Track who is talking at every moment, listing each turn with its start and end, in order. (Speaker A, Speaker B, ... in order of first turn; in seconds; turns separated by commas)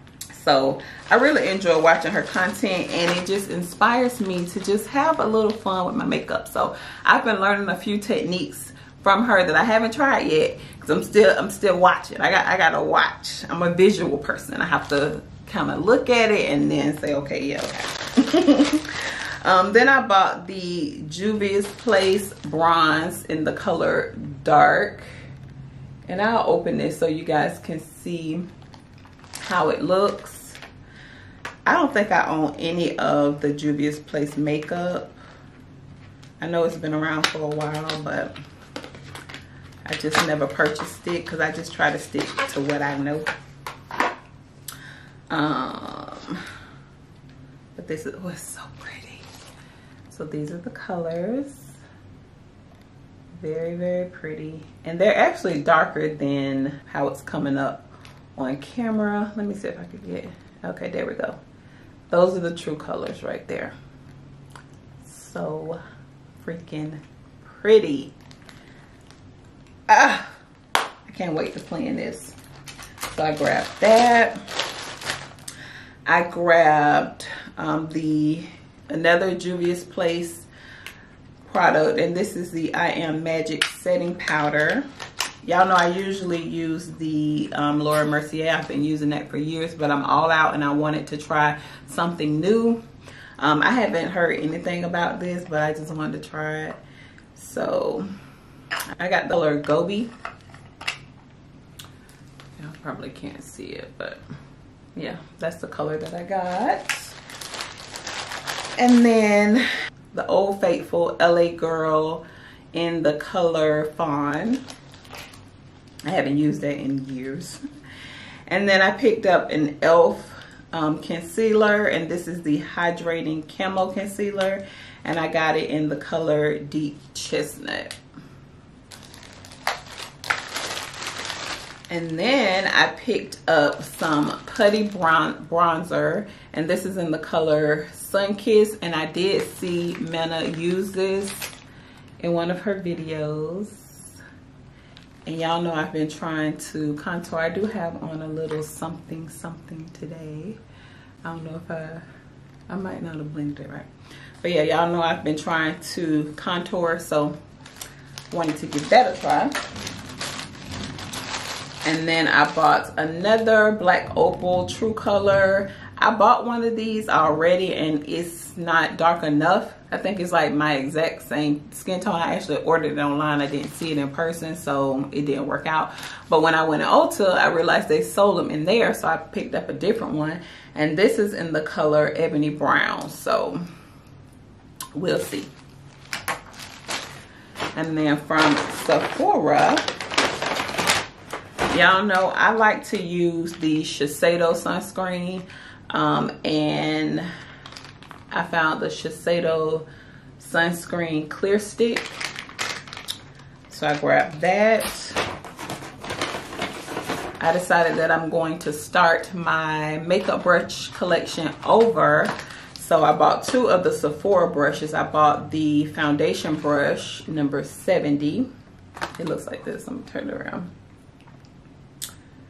Speaker A: 0.3-25.1, Speaker A: 26.1-28.5, Speaker A: 29.4-30.6, Speaker A: 31.6-35.2, Speaker A: 36.4-38.3, Speaker A: 39.9-43.3, Speaker A: 45.3-46.4, Speaker A: 47.8-49.3, Speaker A: 50.1-51.8, Speaker A: 53.3-61.4, Speaker A: 62.1-63.8, Speaker A: 65.0-65.8, Speaker A: 66.4-68.1, Speaker A: 69.9-70.4, Speaker A: 71.0-72.4, Speaker A: 73.1-74.4, Speaker A: 76.0-80.5, Speaker A: 81.4-84.9, Speaker A: 85.4-92.8, Speaker A: 93.4-96.8, Speaker A: 97.3-98.1, Speaker A: 99.0-100.1, Speaker A: 102.6-104.2, Speaker A: 104.9-107.1, Speaker A: 108.8-114.6, Speaker A: 116.0-117.6, Speaker A: 118.5-128.0, Speaker A: 131.9-141.5, Speaker A: 142.2-144.1, Speaker A: 145.2-150.6, Speaker A: 151.2-152.0, Speaker A: 152.7-153.9, Speaker A: 154.4-157.4, Speaker A: 158.3-159.6, Speaker A: 161.8-183.6, Speaker A: 184.9-185.5, Speaker A: 187.8-189.9, Speaker A: 191.7-197.3, Speaker A: 198.3-199.9, Speaker A: 200.4-202.2, Speaker A: 203.7-205.2, Speaker A: 207.4-218.5, Speaker A: 219.2-220.7